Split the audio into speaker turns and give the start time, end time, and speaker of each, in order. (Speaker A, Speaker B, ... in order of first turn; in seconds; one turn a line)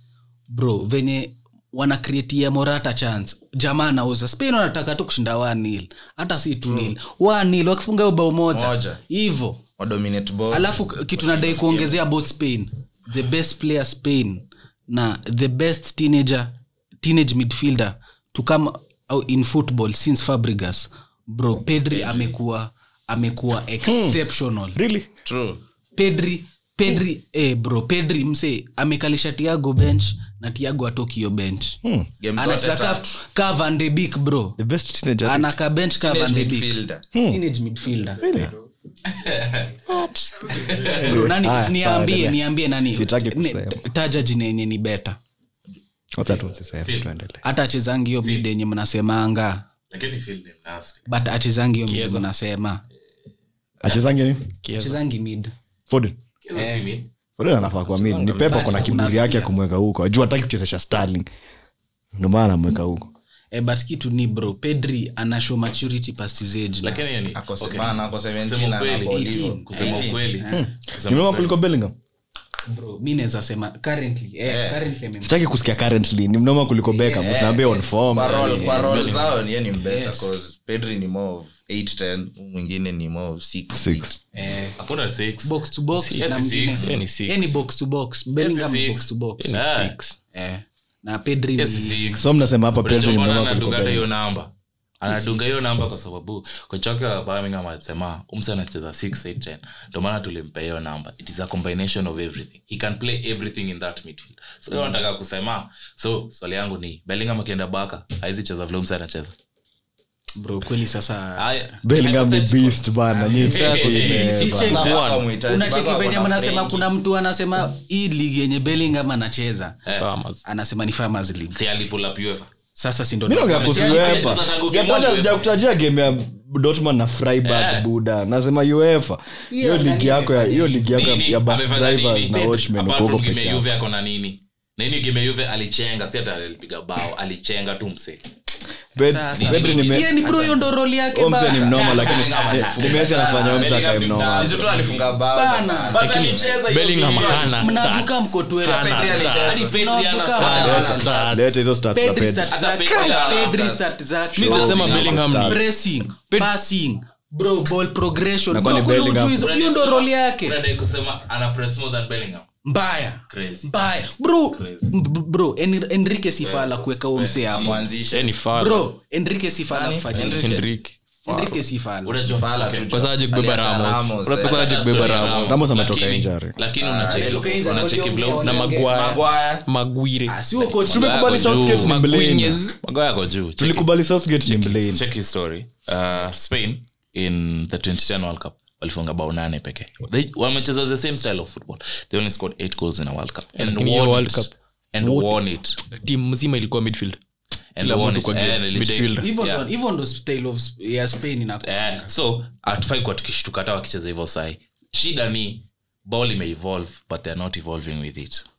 Speaker A: 0.5-9.6
Speaker B: 8.5-9.0
Speaker B: 9.8-11.9
Speaker A: 10.5-24.8
Speaker B: 21.9-22.3
Speaker C: 23.8-24.2
Speaker C: 24.7-25.1
Speaker B: 25.2-25.6
Speaker A: 25.9-31.8
Speaker C: 31.8-32.1
Speaker B: 32.2-33.1
Speaker A: 32.4-34.6
Speaker C: 34.6-35.5
Speaker A: 35.2-38.4
Speaker B: 36.0-37.0
Speaker C: 37.1-37.4
Speaker C: 38.2-38.5
Speaker D: 39.0-39.8
Speaker C: 39.9-43.8
Speaker D: 40.5-41.2
Speaker A: 40.9-45.2
Speaker C: 46.1-47.4
Speaker D: 46.8-47.1
Speaker A: 47.4-49.6
Speaker D: 49.9-51.0
Speaker A: 51.1-52.8
Speaker E: 51.9-52.3
Speaker C: 53.8-54.5
Speaker E: 54.6-55.0
Speaker A: 54.7-55.5
Speaker C: 55.9-56.2
Speaker D: 56.4-57.1
Speaker A: 56.5-57.0
Speaker C: 57.4-61.3
Speaker E: 57.9-58.9
Speaker A: 58.4-59.5
Speaker C: 62.2-63.1
Speaker A: 63.5-67.0
Speaker D: 66.8-71.6
Speaker B: 67.3-70.2
Speaker A: 69.1-70.7
Speaker C: 70.5-72.0
Speaker A: 72.7-75.4
Speaker B: 74.5-74.8
Speaker C: 75.2-78.8
Speaker A: 76.9-80.3
Speaker B: 77.2-84.1
Speaker E: 78.5-79.4
Speaker C: 83.7-84.2
Speaker A: 84.3-84.8
Speaker D: 84.8-85.5
Speaker A: 85.4-89.5
Speaker E: 86.0-87.6
Speaker D: 86.2-87.0
Speaker D: 88.4-89.9
Speaker E: 89.4-90.2
Speaker A: 90.3-92.2
Speaker D: 91.6-92.2
Speaker C: 92.2-94.1
Speaker D: 92.8-94.5
Speaker D: 95.0-109.3
Speaker A: 95.0-95.6
Speaker A: 110.3-111.5
Speaker D: 111.4-114.3
Speaker C: 111.8-114.9
Speaker E: 113.5-115.3
Speaker A: 113.8-119.8
Speaker B: 114.5-116.9
Speaker E: 119.9-120.4
Speaker A: 120.4-121.6
Speaker D: 121.5-122.5
Speaker A: 122.8-124.4
Speaker C: 123.3-133.7
Speaker D: 123.5-125.5
Speaker D: 127.4-127.9
Speaker A: 129.5-131.1
Speaker D: 130.9-138.2
Speaker C: 138.9-140.2
Speaker A: 139.0-143.4
Speaker D: 139.3-140.6
Speaker C: 141.1-144.7
Speaker D: 141.7-145.1
Speaker B: 142.5-143.8
Speaker B: 144.3-147.6
Speaker A: 145.3-146.0
Speaker D: 145.9-147.8
Speaker E: 146.0-149.6
Speaker A: 147.4-151.1
Speaker B: 148.6-149.8
Speaker D: 149.0-151.4
Speaker B: 150.3-151.2
Speaker E: 150.4-151.6
Speaker C: 150.7-152.5
Speaker A: 151.9-160.6
Speaker D: 152.5-153.8
Speaker B: 152.9-153.8
Speaker E: 154.4-155.7
Speaker C: 154.4-155.6
Speaker D: 154.7-155.3
Speaker C: 158.5-159.4
Speaker D: 159.3-162.5
Speaker A: 162.6-167.9
Speaker D: 163.3-163.8
Speaker D: 164.5-164.9
Speaker D: 166.4-167.9
Speaker B: 167.5-168.3
Speaker E: 168.1-168.9
Speaker A: 168.5-170.7
Speaker B: 169.7-170.7
Speaker E: 170.1-171.6
Speaker A: 171.2-172.2
Speaker D: 172.0-172.9
Speaker B: 172.2-175.2
Speaker E: 172.9-175.6
Speaker D: 174.2-178.6
Speaker C: 175.4-176.6
Speaker B: 176.8-179.6
Speaker A: 177.1-179.2
Speaker E: 178.4-180.4
Speaker A: 180.3-181.7
Speaker D: 180.6-182.1
Speaker C: 180.9-182.6
Speaker E: 181.6-182.8
Speaker D: 182.8-183.9
Speaker C: 183.6-185.0
Speaker D: 184.4-195.8
Speaker E: 193.6-197.2
Speaker D: 197.8-199.7
Speaker E: 197.8-199.3
Speaker A: 199.2-202.1
Speaker D: 201.6-208.4